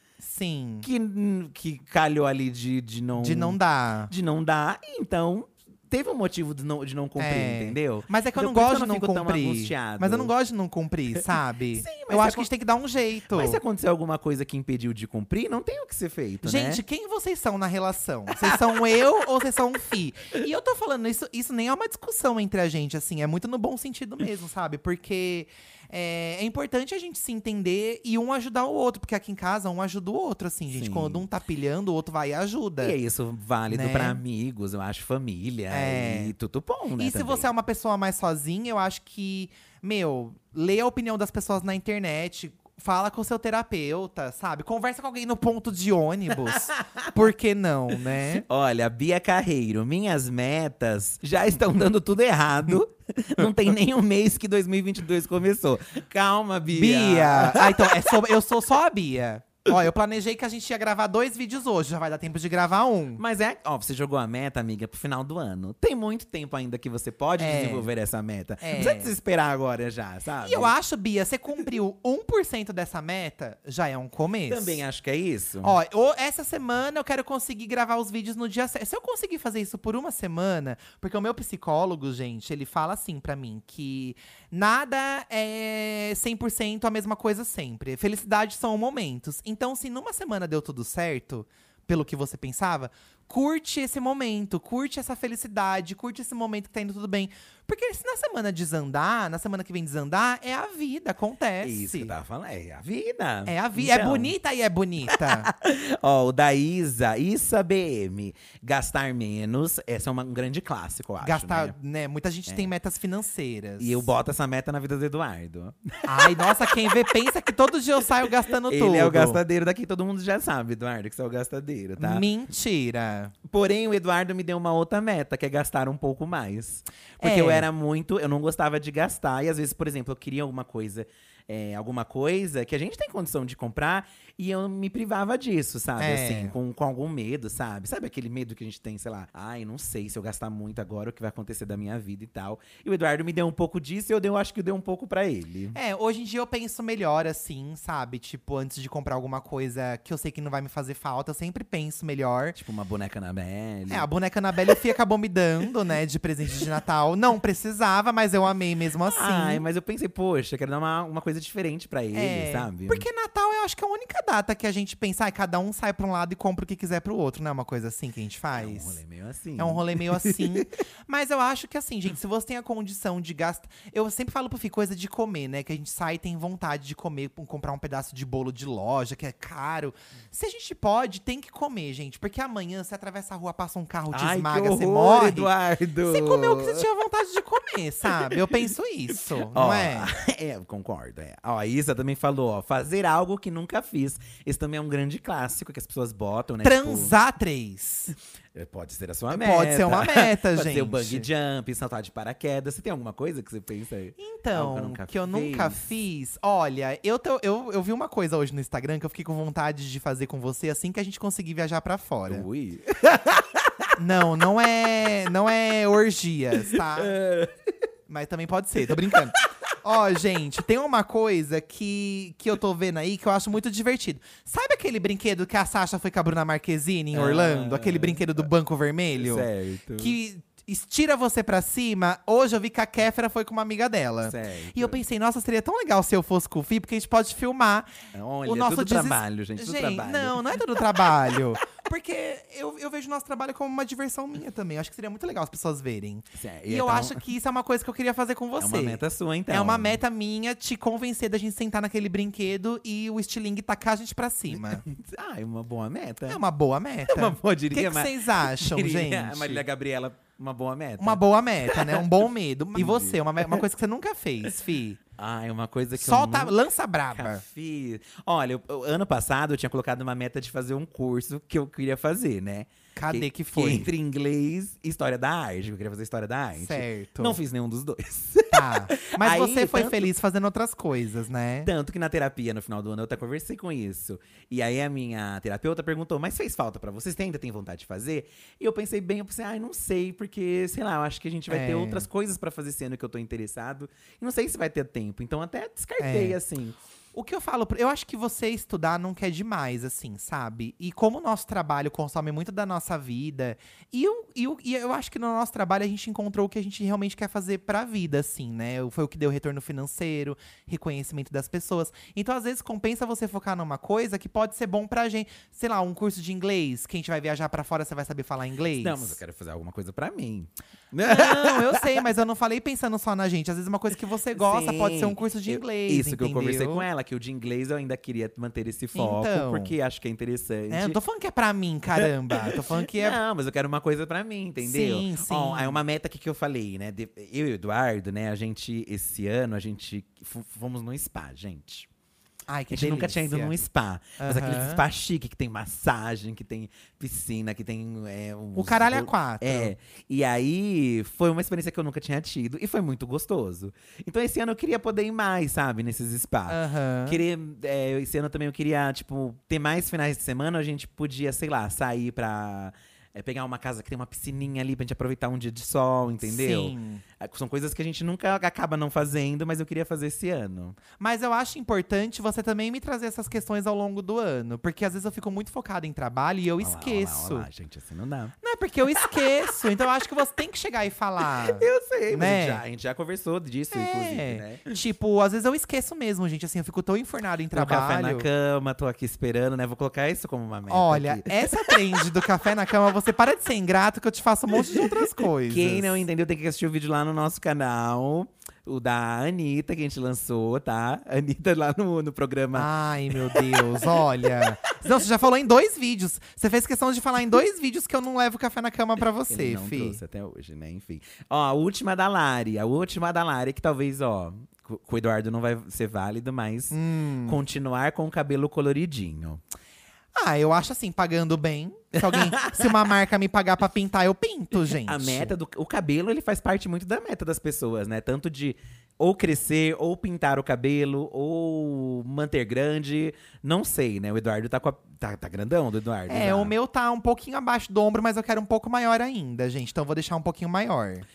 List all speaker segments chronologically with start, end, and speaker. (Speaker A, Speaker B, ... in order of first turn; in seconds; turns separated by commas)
Speaker A: 0.2-0.9, Speaker B: 0.8-10.3, Speaker A: 3.2-4.1, Speaker A: 7.2-13.6, Speaker B: 11.7-12.5, Speaker B: 13.3-16.8, Speaker A: 16.4-33.0, Speaker B: 18.4-19.0, Speaker B: 30.7-31.2, Speaker B: 32.8-37.5, Speaker A: 33.7-34.2, Speaker A: 35.7-36.3, Speaker A: 37.0-48.4, Speaker B: 46.5-47.1, Speaker B: 48.1-58.2, Speaker A: 56.7-63.2, Speaker B: 63.2-70.7, Speaker A: 67.4-67.9, Speaker A: 68.6-69.1, Speaker A: 70.4-74.8, Speaker B: 74.5-75.8, Speaker A: 75.6-102.1, Speaker B: 101.6-104.3, Speaker A: 103.5-105.5, Speaker B: 105.1-111.7, Speaker A: 111.2-114.1, Speaker B: 113.8-117.0, Speaker A: 116.0-119.4, Speaker B: 118.3-122.2, Speaker A: 122.0-123.3, Speaker B: 123.5-145.8, Speaker A: 127.2-127.7, Speaker A: 136.0-136.5, Speaker A: 145.7-152.6, Speaker B: 152.5-154.1, Speaker A: 153.9-159.6, Speaker B: 159.0-163.1, Speaker A: 162.1-169.0, Speaker B: 168.5-170.7, Speaker A: 169.6-185.5, Speaker B: 184.1-186.8, Speaker A: 186.0-190.1, Speaker B: 188.0-188.6, Speaker B: 189.2-197.1, Speaker A: 196.6-198.1, Speaker B: 198.5-205.8, Speaker A: 199.3-201.3, Speaker A: 204.2-212.4, Speaker B: 212.3-213.9, Speaker A: 214.0-217.2, Speaker B: 216.6-217.5, Speaker A: 218.1-237.9, Speaker B: 219.0-219.5, Speaker B: 227.1-228.5, Speaker B: 229.2-230.1, Speaker B: 234.2-235.0, Speaker B: 238.1-241.4, Speaker A: 238.4-254.8, Speaker B: 246.3-247.2, Speaker B: 248.6-250.0, Speaker B: 254.5-256.4, Speaker A: 256.3-259.6, Speaker B: 257.1-262.2, Speaker A: 261.0-265.0, Speaker B: 262.7-263.6, Speaker B: 265.2-266.5, Speaker A: 265.9-267.4, Speaker B: 267.1-280.1, Speaker A: 272.9-273.9, Speaker A: 276.6-277.4, Speaker A: 278.5-281.7, Speaker B: 281.6-296.8, Speaker A: 291.5-292.1, Speaker A: 296.0-296.4, Speaker A: 297.1-319.2, Speaker B: 318.8-321.9, Speaker A: 321.0-326.9, Speaker B: 324.3-331.0, Speaker A: 328.9-329.7, Speaker A: 330.7-333.2, Speaker B: 332.0-341.9, Speaker A: 334.6-335.8, Speaker A: 342.5-343.5, Speaker B: 342.7-370.8, Speaker A: 344.2-344.8, Speaker A: 348.5-349.7, Speaker A: 356.5-357.2, Speaker A: 366.2-367.0, Speaker A: 371.0-377.5, Speaker B: 376.6-378.4, Speaker A: 378.4-382.6, Speaker B: 379.0-379.5, Speaker B: 381.2-384.7, Speaker A: 383.7-388.3, Speaker B: 387.5-392.2, Speaker A: 390.7-396.0, Speaker B: 394.5-405.0, Speaker A: 402.5-410.0, Speaker B: 409.3-419.4, Speaker A: 416.7-417.4, Speaker A: 420.1-425.3, Speaker B: 422.0-422.8, Speaker B: 424.6-436.5, Speaker A: 436.1-441.0